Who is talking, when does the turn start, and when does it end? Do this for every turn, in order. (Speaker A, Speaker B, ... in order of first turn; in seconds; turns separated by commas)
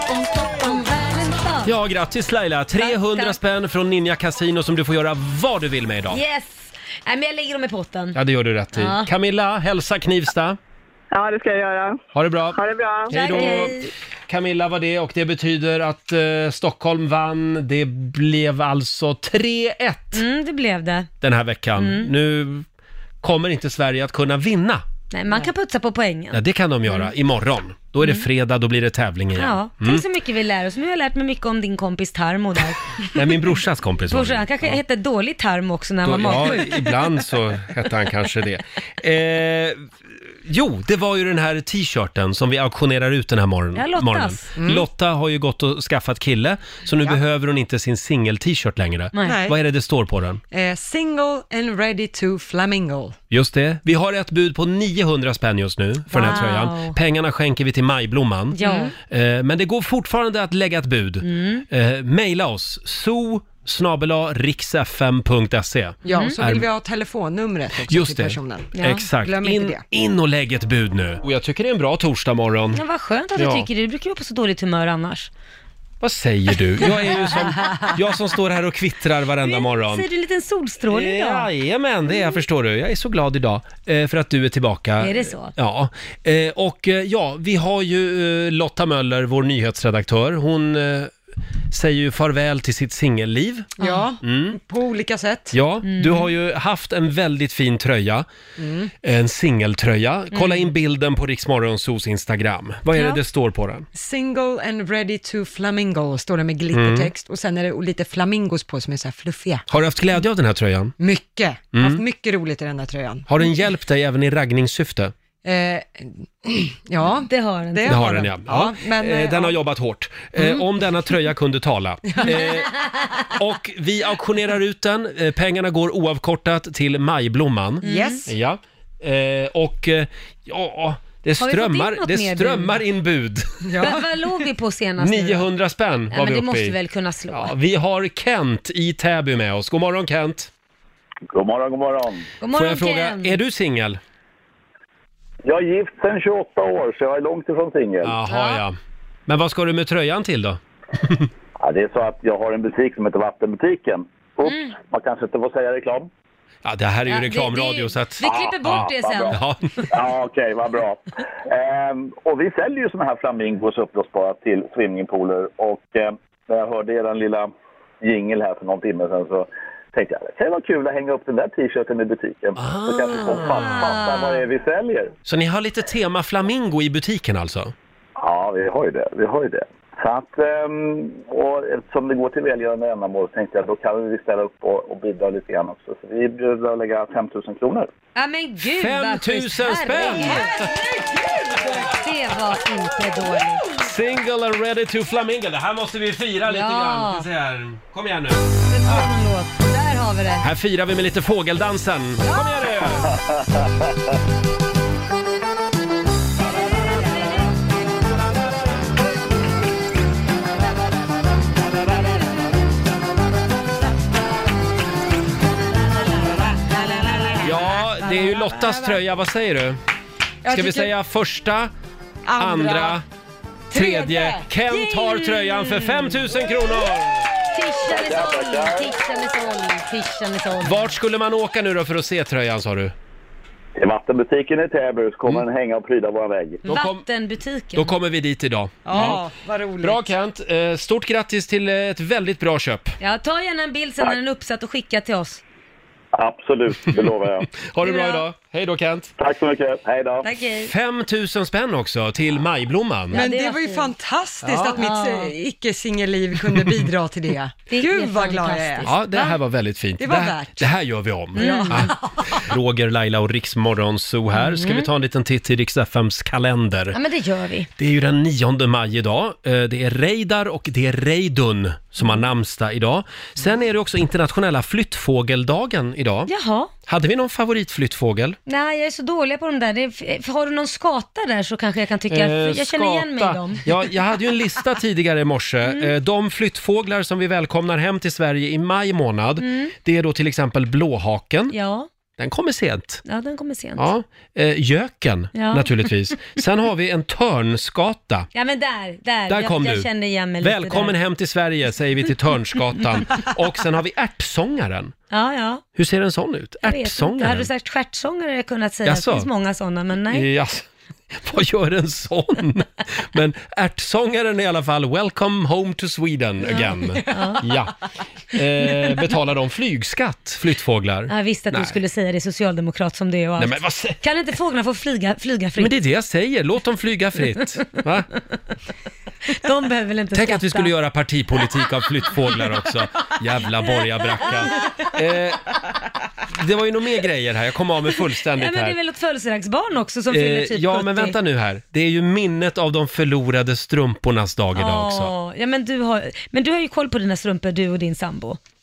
Speaker A: 0.6-1.7, Speaker B: 1.6-6.2, Speaker A: 2.8-3.4, Speaker A: 6.1-8.2, Speaker B: 8.1-10.6, Speaker A: 8.7-9.1, Speaker C: 11.1-12.0, Speaker B: 12.1-20.2, Speaker C: 12.5-13.6, Speaker A: 13.1-13.9, Speaker A: 20.1-21.1, Speaker B: 21.2-22.6, Speaker A: 21.8-22.1, Speaker B: 23.2-24.8, Speaker A: 25.1-27.1, Speaker B: 26.3-30.0, Speaker A: 29.4-33.0, Speaker B: 33.1-34.8, Speaker A: 34.1-36.9, Speaker B: 36.0-39.9, Speaker B: 40.4-50.4, Speaker A: 43.8-44.5, Speaker D: 44.5-44.8, Speaker A: 49.1-49.4, Speaker D: 49.2-49.6, Speaker D: 50.5-53.1, Speaker B: 53.3-66.7, Speaker A: 56.1-57.0, Speaker D: 56.1-56.4, Speaker A: 58.5-58.9, Speaker D: 58.6-58.9, Speaker A: 61.2-61.6, Speaker D: 66.0-69.8, Speaker A: 66.1-66.4, Speaker B: 67.9-72.8, Speaker A: 68.8-69.0, Speaker A: 72.7-75.3, Speaker B: 73.3-73.7, Speaker B: 76.0-80.0, Speaker A: 79.4-81.5, Speaker B: 80.9-91.1, Speaker A: 85.0-85.5, Speaker B: 91.7-94.6, Speaker A: 93.8-94.0, Speaker D: 93.8-95.5, Speaker B: 95.5-98.2, Speaker A: 95.8-96.3, Speaker D: 98.6-98.9, Speaker B: 99.0-103.8, Speaker A: 100.3-100.7, Speaker A: 102.9-103.2, Speaker D: 103.9-109.6, Speaker B: 106.7-107.1, Speaker B: 109.7-110.9, Speaker D: 111.0-113.3, Speaker B: 111.7-112.0, Speaker B: 113.3-115.1, Speaker D: 115.4-119.5, Speaker A: 117.2-118.2, Speaker B: 117.8-122.7, Speaker D: 120.3-120.6, Speaker D: 122.1-122.4, Speaker A: 122.3-122.5, Speaker B: 123.3-133.6, Speaker A: 127.8-128.2, Speaker D: 127.8-128.3, Speaker A: 131.4-132.8, Speaker D: 133.6-134.1, Speaker A: 133.8-135.5, Speaker B: 135.0-136.8, Speaker A: 136.1-137.5, Speaker B: 137.3-140.5, Speaker E: 141.3-142.3, Speaker A: 142.4-143.4, Speaker B: 142.5-144.0, Speaker E: 145.4-148.1, Speaker B: 148.0-148.7, Speaker A: 148.3-148.6, Speaker B: 149.3-151.3, Speaker E: 151.6-156.1, Speaker A: 154.4-154.7, Speaker B: 156.6-159.9, Speaker A: 157.1-159.4, Speaker E: 158.2-159.4, Speaker E: 159.9-175.1, Speaker B: 172.6-174.1, Speaker A: 173.3-174.4, Speaker B: 175.2-177.7, Speaker E: 178.2-187.9, Speaker A: 188.1-190.6, Speaker B: 188.6-190.8, Speaker B: 191.6-191.9, Speaker A: 191.7-193.7, Speaker B: 193.7-199.1, Speaker A: 196.5-197.2, Speaker A: 198.7-200.4, Speaker B: 200.4-203.1, Speaker A: 202.3-203.1, Speaker E: 203.1-203.7, Speaker A: 206.5-207.5, Speaker A: 216.2-218.7, Speaker B: 217.4-219.8, Speaker D: 220.4-220.9, Speaker B: 220.5-221.7, Speaker D: 222.2-223.0, Speaker B: 222.4-223.0, Speaker B: 223.7-227.3, Speaker D: 223.7-224.4, Speaker A: 224.7-226.3, Speaker A: 227.5-230.9, Speaker E: 227.8-228.9, Speaker B: 230.6-232.9, Speaker E: 233.8-236.6, Speaker B: 236.6-237.0, Speaker A: 236.7-237.9, Speaker B: 237.7-239.2, Speaker D: 238.8-240.1, Speaker B: 239.8-242.9, Speaker A: 243.0-245.4, Speaker E: 246.1-247.6, Speaker B: 247.6-249.1, Speaker A: 247.8-248.2, Speaker E: 249.2-250.3, Speaker A: 250.2-250.7, Speaker B: 250.6-253.2, Speaker A: 253.1-253.9, Speaker D: 253.1-258.9, Speaker B: 254.4-254.8, Speaker A: 254.7-255.3, Speaker A: 257.7-259.4, Speaker B: 258.9-267.0, Speaker D: 260.0-260.7, Speaker A: 261.3-261.9, Speaker D: 261.3-262.4, Speaker A: 264.3-264.9, Speaker A: 266.9-267.7, Speaker B: 267.8-276.3, Speaker A: 276.3-276.7, Speaker B: 276.9-278.4, Speaker A: 278.5-283.7, Speaker B: 282.1-291.5, Speaker A: 285.6-285.9, Speaker A: 289.4-289.7, Speaker A: 291.5-291.9, Speaker B: 292.2-293.0, Speaker A: 293.0-293.9, Speaker B: 293.8-298.3, Speaker A: 295.3-295.7, Speaker A: 298.3-301.0, Speaker B: 299.3-299.9, Speaker B: 300.4-304.9, Speaker A: 305.1-305.6, Speaker B: 305.7-307.5, Speaker A: 306.6-310.3, Speaker B: 308.8-309.3, Speaker B: 310.1-317.8, Speaker A: 316.4-317.5, Speaker B: 318.3-321.8, Speaker A: 321.1-325.7, Speaker B: 323.4-324.0, Speaker B: 325.6-328.1, Speaker A: 329.3-330.7, Speaker B: 330.1-335.5, Speaker A: 334.1-334.9, Speaker B: 336.3-338.8, Speaker A: 338.3-341.1, Speaker B: 340.1-345.1, Speaker A: 344.6-348.4